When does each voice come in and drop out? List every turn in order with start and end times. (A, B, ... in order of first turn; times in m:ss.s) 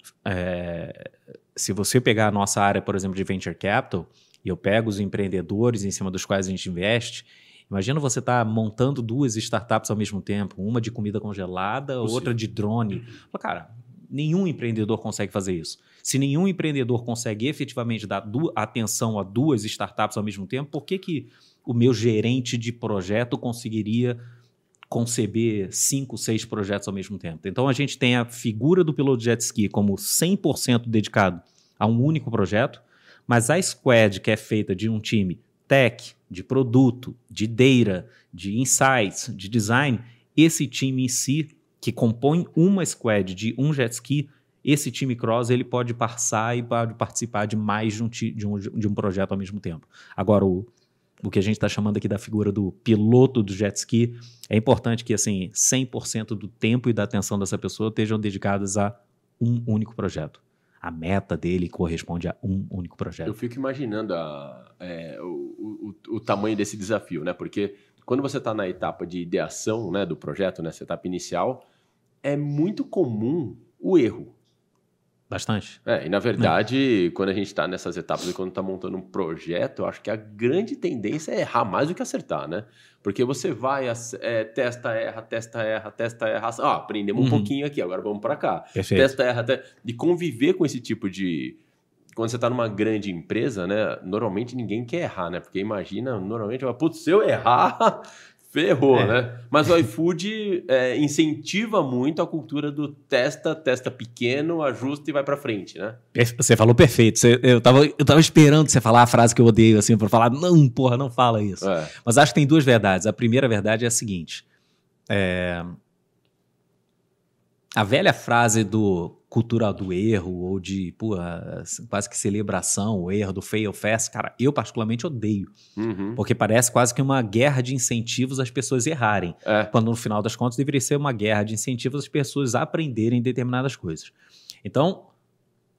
0:00.2-0:24.2 A
0:24.9-0:50.7 A
0:51.2-1:03.4 A
1:03.2-1:11.6 B
1:12.2-1:14.3 B
1:15.3-1:15.8 A
1:15.8-1:31.6 B
1:27.2-1:27.5 A
1:28.8-1:29.1 A
1:32.1-1:46.0 B
1:46.1-1:54.4 A
1:51.6-1:51.9 B
1:55.1-1:55.8 A
1:57.7-2:05.5 A
2:05.8-2:06.2 B
2:06.2-2:14.1 A
2:09.4-2:09.7 B
2:14.6-2:15.1 A